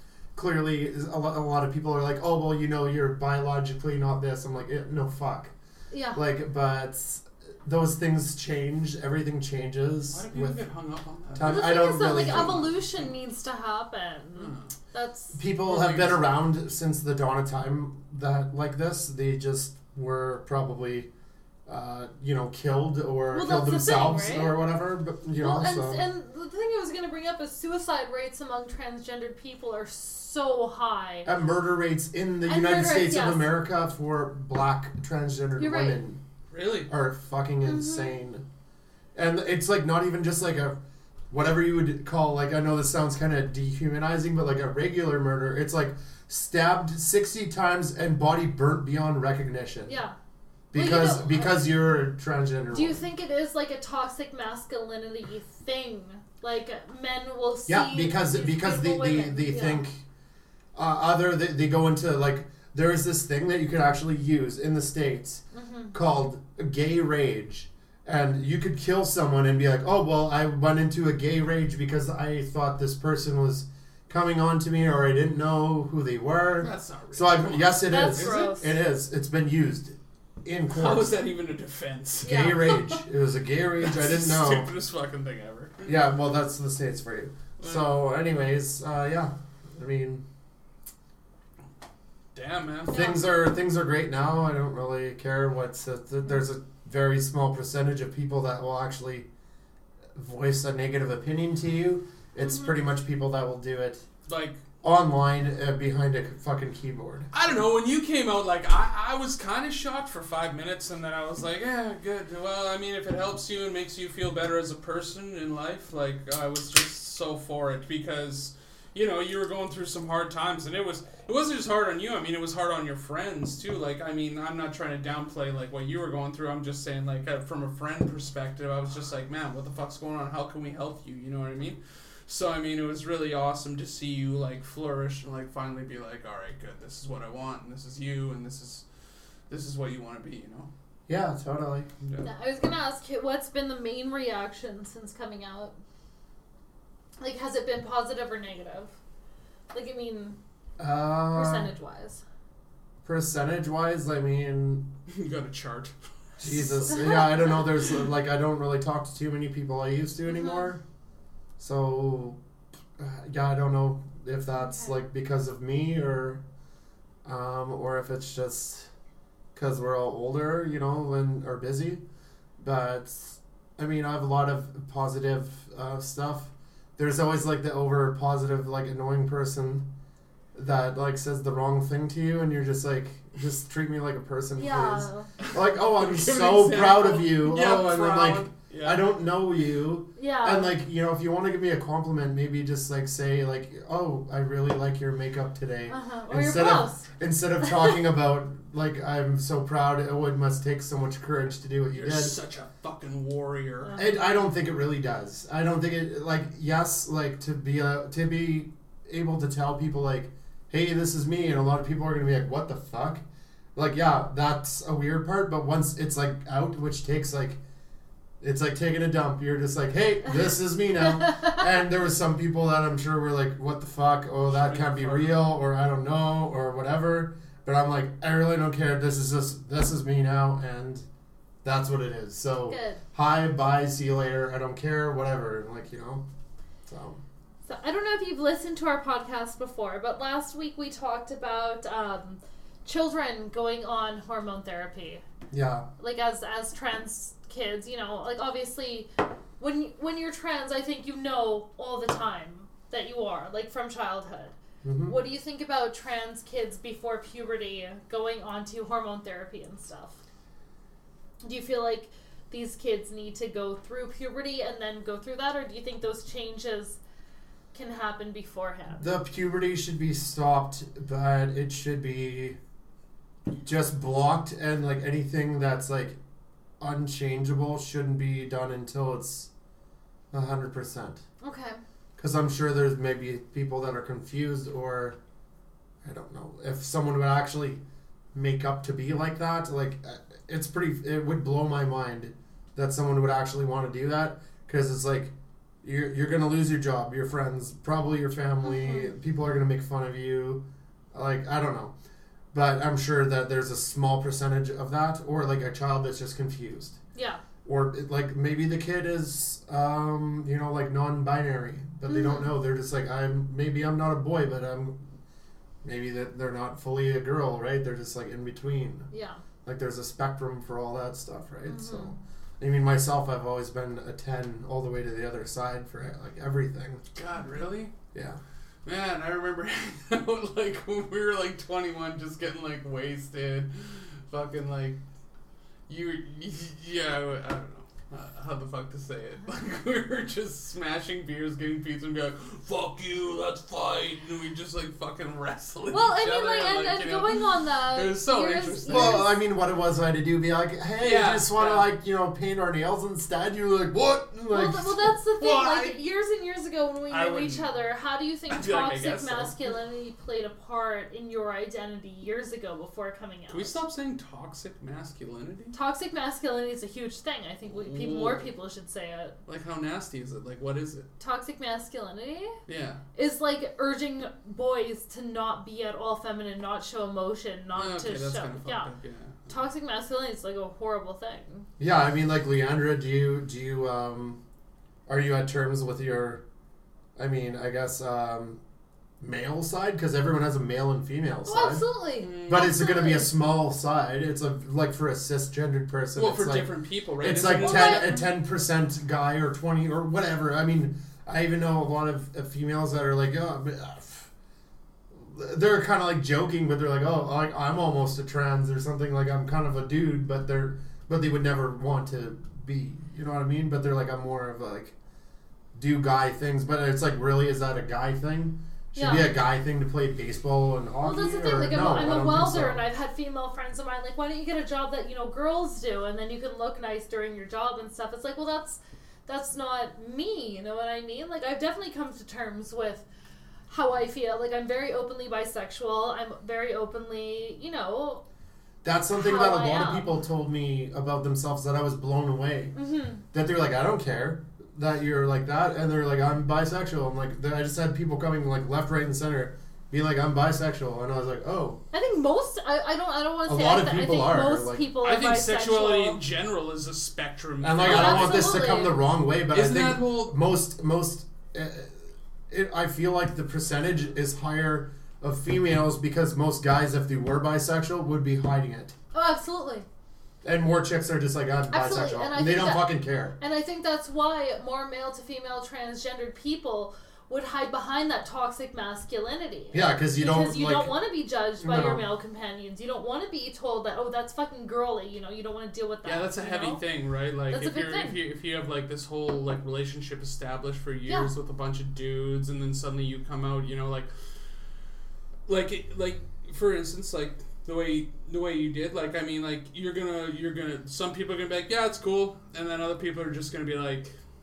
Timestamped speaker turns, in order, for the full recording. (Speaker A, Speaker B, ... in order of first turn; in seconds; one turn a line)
Speaker A: 0.3-5.5
Speaker B: 5.9-6.2
Speaker A: 6.1-10.6
Speaker C: 10.1-11.7
Speaker A: 11.3-12.8
Speaker B: 11.4-15.4
Speaker C: 14.4-14.7
Speaker A: 15.3-21.1
Speaker C: 15.7-16.2
Speaker A: 21.7-26.0
Speaker B: 23.3-24.6
Speaker B: 25.4-31.3
Speaker A: 31.2-36.2
Speaker B: 32.5-33.5
Speaker B: 35.6-36.0
Speaker C: 36.5-36.9
Speaker A: 36.9-38.5
Speaker B: 37.6-38.1
Speaker A: 39.1-40.8
Speaker A: 41.3-50.0
Speaker B: 49.9-50.2
Speaker A: 50.7-53.1
Speaker B: 50.7-51.6
Speaker B: 52.7-59.9
Speaker A: 57.7-60.0
Speaker A: 60.8-65.4
Speaker B: 65.5-66.0
Speaker A: 65.9-81.1
Speaker C: 76.6-78.5
Speaker B: 77.9-78.8
Speaker C: 80.7-82.6
Speaker B: 82.2-83.0
Speaker A: 82.2-84.7
Speaker C: 83.8-85.9
Speaker A: 85.9-90.2
Speaker C: 87.6-87.9
Speaker C: 92.3-93.0
Speaker A: 92.9-99.3
Speaker B: 92.9-93.3
Speaker A: 100.2-104.0
Speaker C: 104.3-104.6
Speaker A: 104.8-107.3
Speaker C: 107.3-138.8
Speaker C: 139.5-140.7
Speaker A: 141.1-141.9
Speaker C: 142.0-142.3
Speaker B: 142.2-145.8
Speaker B: 147.2-148.9
Speaker B: 149.7-150.4
Speaker A: 150.8-151.7
Speaker B: 151.3-152.2
Speaker A: 153.0-154.9
Speaker C: 155.1-155.9
Speaker A: 156.4-160.8
Speaker B: 156.8-157.6
Speaker B: 160.3-160.7
Speaker A: 161.6-162.4
Speaker A: 163.0-166.4
Speaker B: 164.6-164.9
Speaker A: 167.2-168.9
Speaker A: 169.6-172.0
Speaker A: 172.6-179.9
Speaker A: 180.5-202.4
Speaker B: 184.6-185.3
Speaker C: 185.5-189.0
Speaker B: 190.2-190.8
Speaker B: 195.9-197.1
Speaker B: 197.6-198.0
Speaker C: 201.9-203.9
Speaker B: 203.8-204.2
Speaker A: 204.0-213.2
Speaker A: 213.8-217.6
Speaker A: 218.4-231.1
Speaker B: 221.2-221.6
Speaker C: 224.5-225.5
Speaker A: 231.6-236.2
Speaker B: 232.7-233.0
Speaker A: 236.9-237.2
Speaker B: 237.7-245.2
Speaker A: 245.5-245.9
Speaker B: 246.0-260.2
Speaker A: 254.8-255.2
Speaker B: 261.4-267.0
Speaker B: 267.7-269.1
Speaker A: 269.0-272.6
Speaker A: 273.6-276.2
Speaker A: 276.8-279.5
Speaker A: 280.3-281.2
Speaker B: 281.4-281.8
Speaker A: 282.2-285.2
Speaker A: 286.0-287.8
Speaker A: 288.3-300.6
Speaker B: 298.6-299.1
Speaker A: 301.1-301.9
Speaker A: 302.5-307.0
Speaker B: 307.1-307.4
Speaker A: 307.6-315.0
Speaker B: 312.1-312.4
Speaker A: 315.8-319.1
Speaker B: 319.1-319.4
Speaker A: 319.6-327.0
Speaker B: 321.7-322.2
Speaker C: 327.1-327.9
Speaker A: 328.1-328.4
Speaker C: 328.9-335.0
Speaker C: 335.9-349.2
Speaker B: 345.9-349.3
Speaker A: 348.9-355.1
Speaker C: 351.0-351.9
Speaker B: 354.5-363.8
Speaker C: 355.4-356.0
Speaker C: 357.1-357.7
Speaker C: 358.5-359.7
Speaker C: 363.5-365.8
Speaker B: 365.7-369.4
Speaker C: 367.6-368.4
Speaker C: 369.5-371.1
Speaker B: 371.2-372.6
Speaker C: 372.7-373.0
Speaker B: 373.1-378.9
Speaker C: 377.8-379.5
Speaker B: 379.5-381.7
Speaker A: 381.8-384.4
Speaker A: 385.1-386.4
Speaker A: 387.2-388.6
Speaker A: 389.2-391.8
Speaker B: 391.5-393.3
Speaker C: 392.2-392.7
Speaker A: 392.5-404.3
Speaker C: 396.2-398.2
Speaker B: 397.6-398.3
Speaker A: 405.1-414.9
Speaker A: 415.7-422.8
Speaker B: 419.0-419.3
Speaker B: 421.0-433.0
Speaker B: 433.7-438.2
Speaker A: 438.8-442.8
Speaker B: 439.1-440.1
Speaker B: 442.8-443.2
Speaker A: 443.3-451.8
Speaker B: 451.9-456.2
Speaker A: 453.4-454.9
Speaker C: 455.0-458.4
Speaker A: 457.6-468.9
Speaker B: 457.8-459.0
Speaker C: 459.5-460.3
Speaker B: 469.1-469.9
Speaker A: 470.4-473.4
Speaker B: 471.7-486.8
Speaker A: 479.7-481.0
Speaker A: 481.6-482.0
Speaker C: 486.1-494.1
Speaker B: 487.5-488.2
Speaker C: 495.5-504.1